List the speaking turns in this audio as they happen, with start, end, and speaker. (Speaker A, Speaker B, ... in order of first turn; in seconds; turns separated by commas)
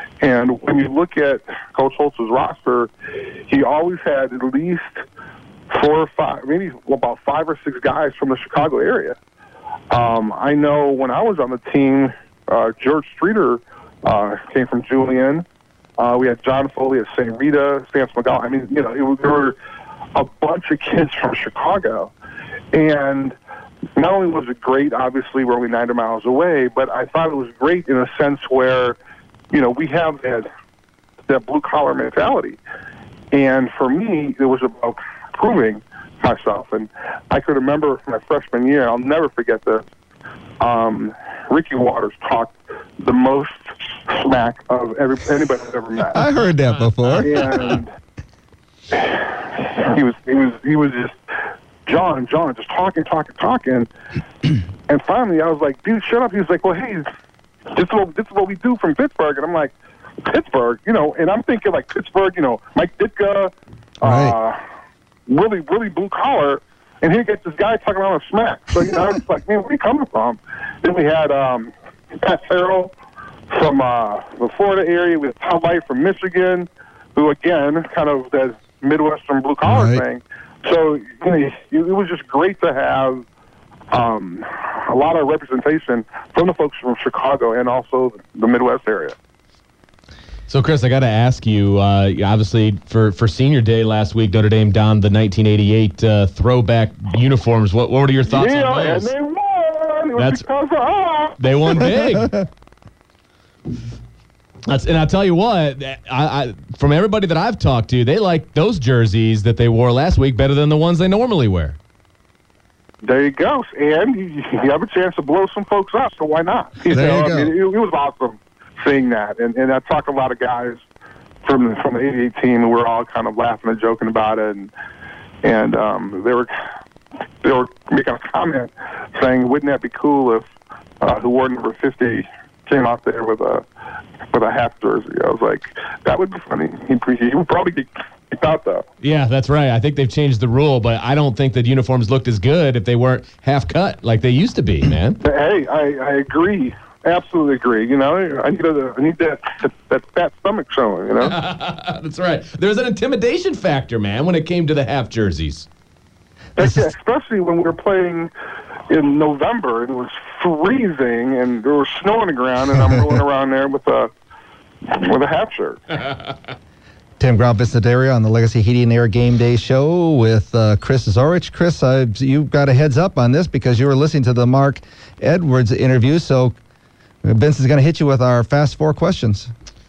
Speaker A: 0.2-2.9, Speaker A: 3.5-5.0, Speaker A: 5.7-9.2, Speaker A: 9.9-15.4, Speaker A: 16.0-19.6, Speaker A: 20.1-22.1, Speaker A: 22.7-23.4, Speaker A: 24.0-29.0, Speaker A: 29.5-30.5, Speaker A: 31.3-32.6, Speaker A: 33.3-39.9, Speaker A: 40.6-46.2, Speaker B: 46.1-47.5, Speaker A: 47.2-47.9, Speaker A: 48.9-51.2, Speaker A: 51.9-53.9, Speaker A: 54.9-57.1, Speaker A: 57.7-59.7, Speaker A: 60.2-64.6, Speaker B: 64.0-64.3, Speaker A: 65.3-72.9, Speaker A: 73.5-83.2, Speaker B: 79.7-80.0, Speaker A: 83.9-89.2, Speaker C: 90.5-99.1, Speaker A: 98.3-101.9, Speaker C: 100.2-100.5, Speaker C: 101.4-102.4, Speaker C: 104.7-111.8, Speaker A: 113.0-120.8, Speaker B: 116.9-117.5, Speaker A: 121.4-124.7, Speaker A: 125.4-126.5, Speaker A: 127.4-130.5, Speaker A: 131.0-133.7, Speaker A: 134.3-138.8, Speaker C: 139.0-145.2, Speaker A: 145.2-151.4, Speaker C: 151.2-155.7, Speaker A: 156.6-158.3, Speaker B: 156.6-156.9, Speaker A: 158.9-164.1, Speaker A: 164.9-165.8, Speaker B: 167.2-176.6, Speaker B: 177.2-179.5